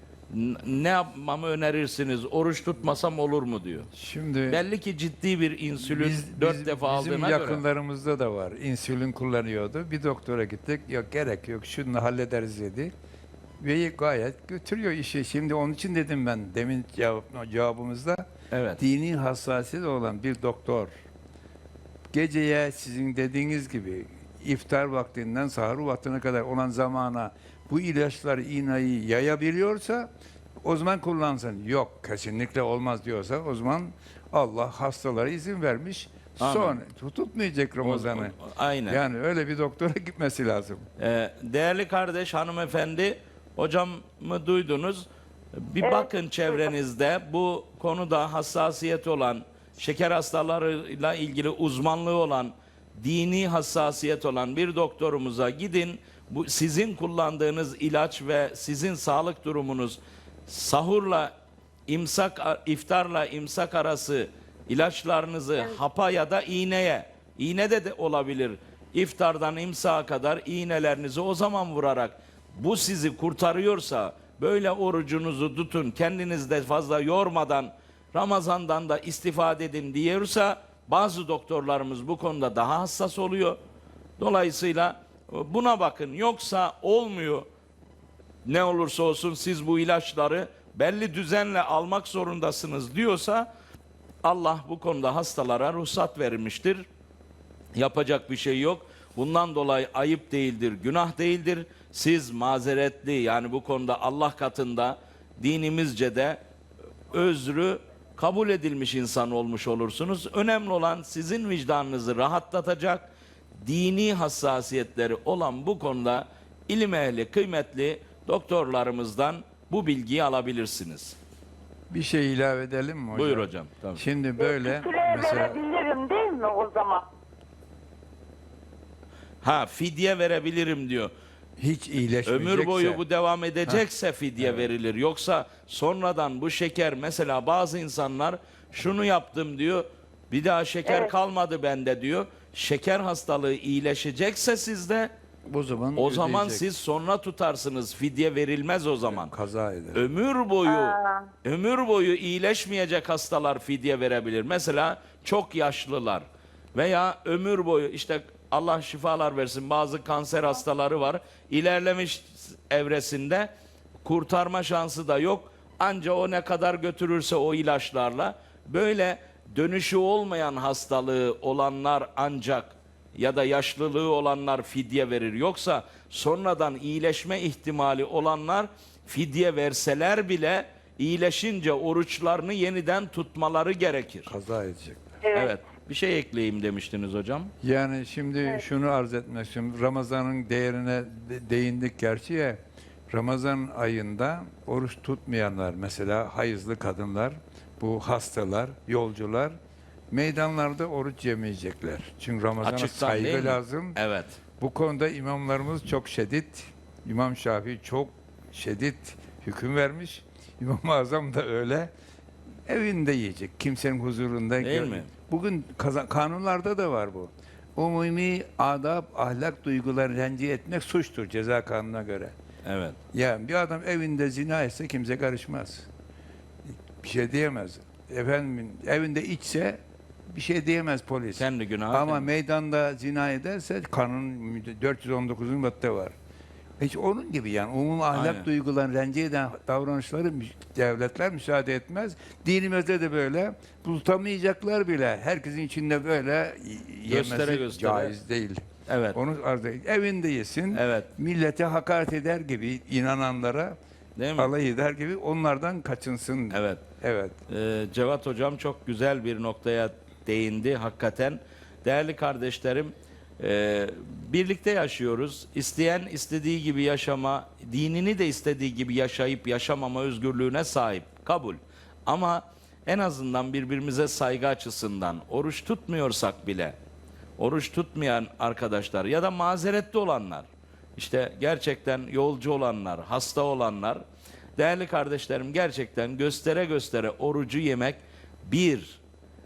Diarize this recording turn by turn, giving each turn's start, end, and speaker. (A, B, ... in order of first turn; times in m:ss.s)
0:00.3-0:03.9 A
0:03.9-0:04.6 B
0:04.5-0:07.6 A
0:05.8-0:12.9 B
0:13.6-0:18.2 B
0:18.5-0:18.8 A
0:18.8-0:20.9 B
0:22.1-0:30.1 B
0:30.6-0:38.3 B
0:36.4-0:36.8 A
0:37.8-0:39.0 A
0:38.9-0:40.9 B
0:41.0-1:01.3 A
0:45.8-0:46.1 C
1:01.9-1:23.6 A
1:24.2-1:27.5 A
1:28.4-1:33.5 A
1:34.2-1:36.9 A
1:37.8-1:46.4 A
1:47.1-2:01.2 A
2:01.9-2:05.6 B
2:03.1-2:04.0 A
2:04.4-2:07.1 C
2:09.4-2:11.1 A
2:11.6-2:13.0 B
2:12.2-2:25.1 A
2:14.4-2:14.7 B
2:25.5-2:26.6 B
2:26.0-2:29.3 A
2:29.1-2:30.0 B
2:29.9-2:43.5 A
2:30.7-2:31.3 C
2:44.0-3:04.3 A
3:04.3-3:05.2 B
3:05.2-3:05.5 C
3:05.3-3:07.5 A
3:07.6-3:19.6 B
3:20.1-3:24.0 B
3:22.6-3:24.4 A
3:24.6-3:31.9 B
3:32.7-3:42.3 B
3:34.6-3:35.1 A
3:42.6-3:43.0 A
3:43.1-3:45.9 B
3:47.0-3:49.8 B
3:50.3-3:56.1 B
3:51.4-3:52.3 A
3:56.8-4:08.6 B
3:58.1-3:58.5 A
4:07.1-4:08.1 A
4:08.9-4:09.2 A
4:09.1-4:13.8 B
4:10.7-4:11.1 A
4:14.2-4:14.5 A
4:14.4-4:17.4 B
4:16.5-4:16.8 A
4:17.5-4:36.8 A
4:37.4-4:44.0 A
4:44.6-4:49.0 A